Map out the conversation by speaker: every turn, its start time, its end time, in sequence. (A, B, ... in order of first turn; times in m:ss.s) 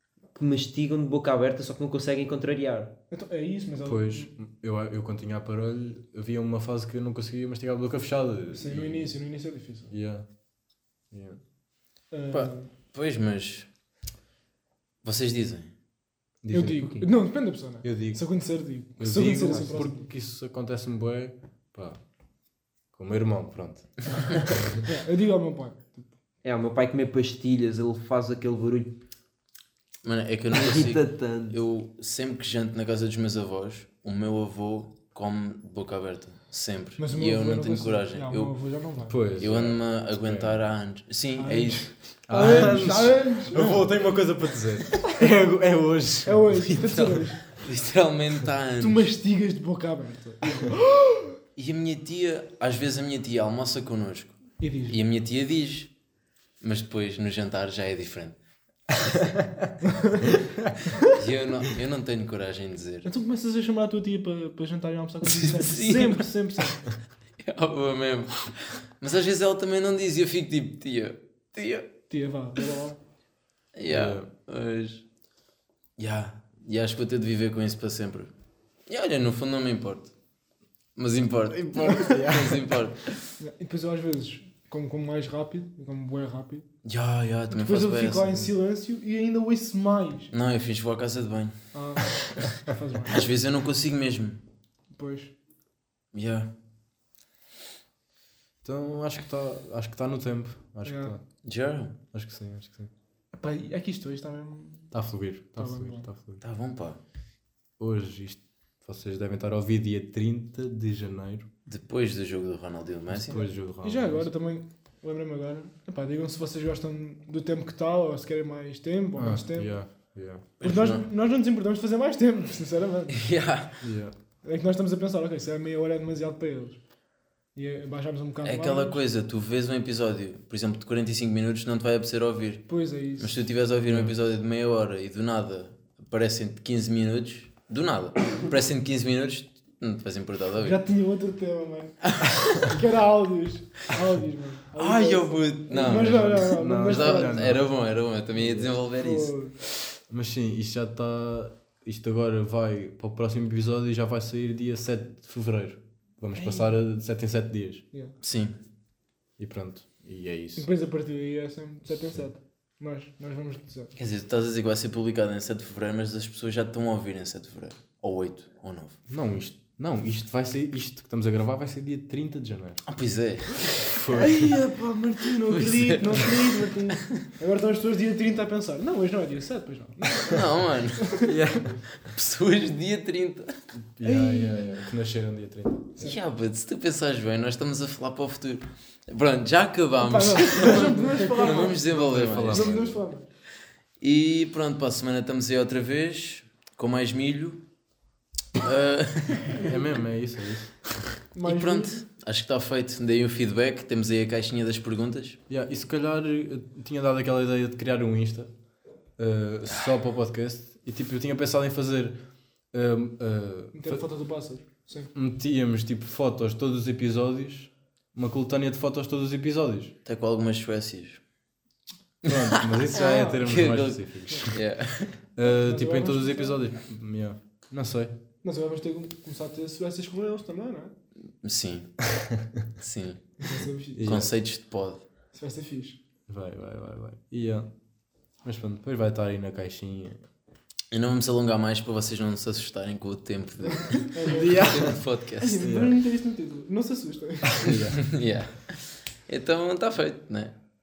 0:00.3-0:02.9 A
0:03.1-0:04.3 B
0:03.8-0:09.1 C
0:08.5-0:09.9 B
0:09.9-0:10.2 C
0:11.1-0:11.4 C
0:12.1-0:12.7 B
0:12.3-0:13.7 D
0:15.0-0:15.7 D
0:16.4-0:17.1 C
0:16.5-0:20.1 B
0:17.8-0:18.2 C
0:19.0-0:22.0 C
0:22.9-0:23.9 C
0:24.8-0:26.1 B
0:26.4-0:29.0 A
0:30.0-0:38.6 D
0:30.5-0:31.6 A
0:37.0-0:39.2 B
0:39.1-0:40.6 C
0:39.4-0:41.9 D
0:41.4-0:43.9 B
0:42.3-0:46.9 C
0:42.4-0:42.8 D
0:43.5-0:43.8 D
0:46.2-0:47.6 B
0:46.7-0:49.0 D
0:48.8-0:51.3 B
0:51.6-0:55.9 D
0:54.6-0:55.0 B
0:56.6-0:58.4 D
0:59.9-1:00.2 B
1:01.1-1:03.1 D
1:03.0-1:06.8 B
1:05.2-1:06.2 D
1:07.4-1:11.9 D
1:12.1-1:13.0 B
1:13.7-1:15.0 D
1:13.9-1:14.3 C
1:16.0-1:18.3 D
1:18.9-1:20.1 D
1:21.0-1:23.1 D
1:21.5-1:22.7 C
1:23.4-1:26.7 B
1:26.8-1:28.5 D
1:27.5-1:30.3 B
1:30.3-1:31.6 D
1:31.7-1:33.3 B
1:33.1-1:34.4 D
1:35.0-1:35.3 B
1:36.1-1:36.5 D
1:38.6-1:41.2 C
1:40.8-1:41.1 B
1:41.4-1:42.0 D
1:42.1-1:42.9 C
1:43.3-1:44.9 B
1:44.9-1:46.4 C
1:45.6-1:46.0 B
1:46.4-1:47.0 D
1:47.8-1:51.5 C
1:51.7-1:53.4 D
1:53.1-1:54.3 C
1:53.4-1:59.8 B
1:59.2-2:00.4 C
2:00.6-2:01.1 D
2:00.6-2:03.3 B
2:03.2-2:03.8 D
2:03.8-2:04.1 C
2:04.4-2:06.8 B
2:07.5-2:09.0 B
2:08.4-2:20.8 D
2:12.7-2:13.5 B
2:13.9-2:14.1 C
2:20.6-2:27.6 B
2:24.7-2:29.3 D
2:25.7-2:27.8 C
2:28.3-2:28.7 C
2:28.9-2:29.6 B
2:30.1-2:37.8 C
2:36.4-2:36.7 B
2:38.2-2:38.6 D
2:39.4-2:40.7 C
2:40.6-2:43.9 B
2:44.0-2:49.0 D
2:49.1-2:52.8 C
2:52.8-2:53.8 D
2:53.8-2:54.6 C
2:54.1-3:00.4 B
2:55.5-2:57.2 D
3:00.2-3:03.5 D
3:01.0-3:01.3 B
3:01.2-3:01.8 C
3:03.7-3:06.0 C
3:04.0-3:04.9 B
3:06.0-3:12.9 D
3:10.0-3:13.2 B
3:11.0-3:13.0 C
3:14.0-3:17.6 D
3:18.6-3:19.7 D
3:19.6-3:20.9 C
3:21.3-3:22.0 B
3:21.4-3:25.4 D
3:25.5-3:28.5 C
3:29.2-3:32.2 C
3:32.7-3:34.0 C
3:33.7-3:35.1 B
3:35.1-3:39.9 C
3:40.0-3:41.2 D
3:42.2-3:44.6 C
3:42.3-3:42.8 D
3:42.9-3:43.6 B
3:43.4-3:45.1 D
3:45.4-3:48.2 C
3:45.5-3:46.6 B
3:48.4-3:50.9 B
3:51.4-3:51.9 D
3:52.8-3:53.4 D
3:53.4-3:54.2 B
3:53.9-3:54.3 C
3:54.0-3:55.0 D
3:55.3-3:56.0 B
3:56.3-3:57.7 C
3:58.4-4:00.3 C
4:00.9-4:05.6 D
4:03.7-4:07.8 B
4:04.3-4:05.0 C
4:05.6-4:05.9 C
4:07.5-4:08.0 C
4:08.0-4:10.6 D